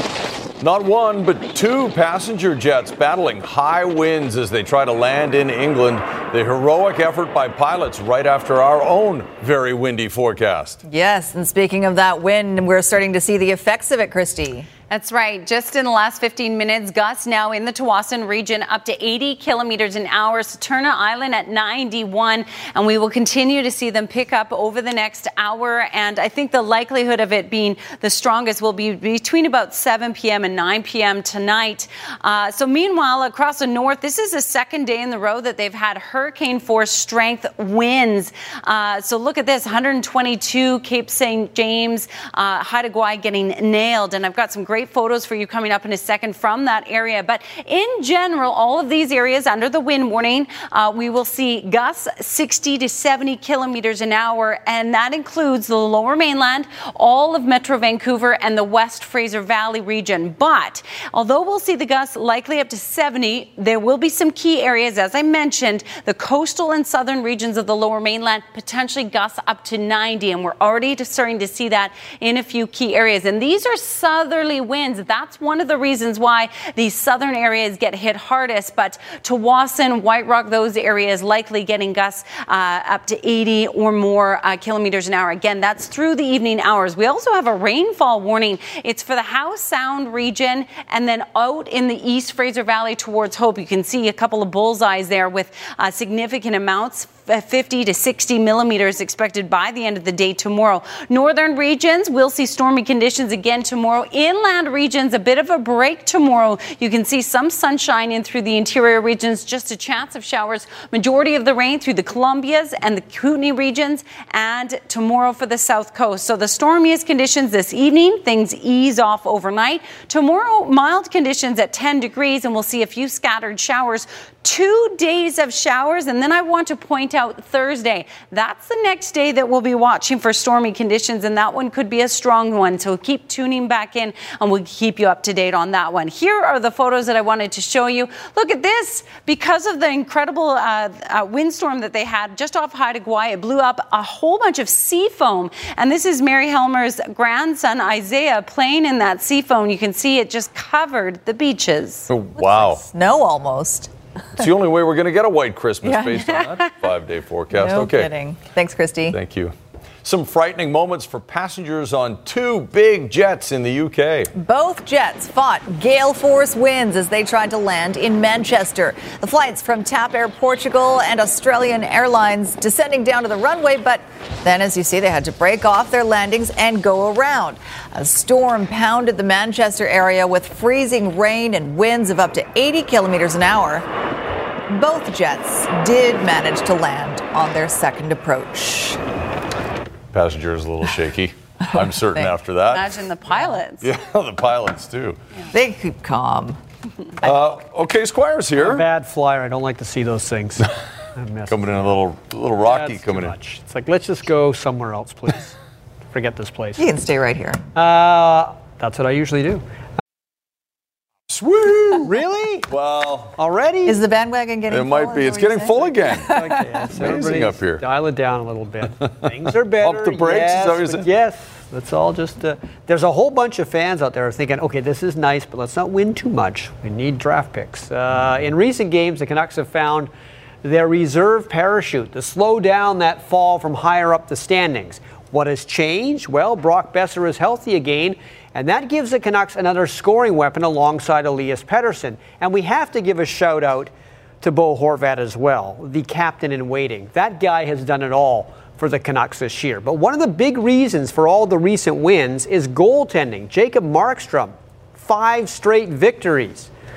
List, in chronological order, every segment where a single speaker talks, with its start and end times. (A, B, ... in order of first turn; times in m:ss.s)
0:00.6-0:10.8 A
0:10.8-0:14.7 B
0:14.9-2:32.1 C
2:32.1-2:32.8 A
2:32.4-2:33.9 B
2:34.4-2:38.1 A
2:35.8-2:36.6 B
2:37.5-2:39.2 B
2:39.1-2:39.5 A
2:40.0-2:44.3 A
2:44.4-3:03.8 B
3:04.7-3:09.0 B
3:10.1-3:13.0 A
3:11.7-3:12.3 B
3:12.7-3:13.9 C
3:13.8-3:15.2 A
3:15.5-3:16.6 B
3:17.2-3:18.8 A
3:18.6-3:21.9 D
3:21.5-3:23.3 A
3:22.6-3:25.5 D
3:26.1-3:26.9 D
3:26.8-3:27.6 B
3:27.7-3:29.6 D
3:31.3-3:32.1 A
3:32.0-3:32.7 D
3:32.7-3:33.3 A
3:33.4-3:34.0 D
3:33.8-3:36.6 B
3:34.7-3:37.8 A
3:36.3-3:50.1 D
3:39.7-3:41.0 A
3:50.6-4:16.7 D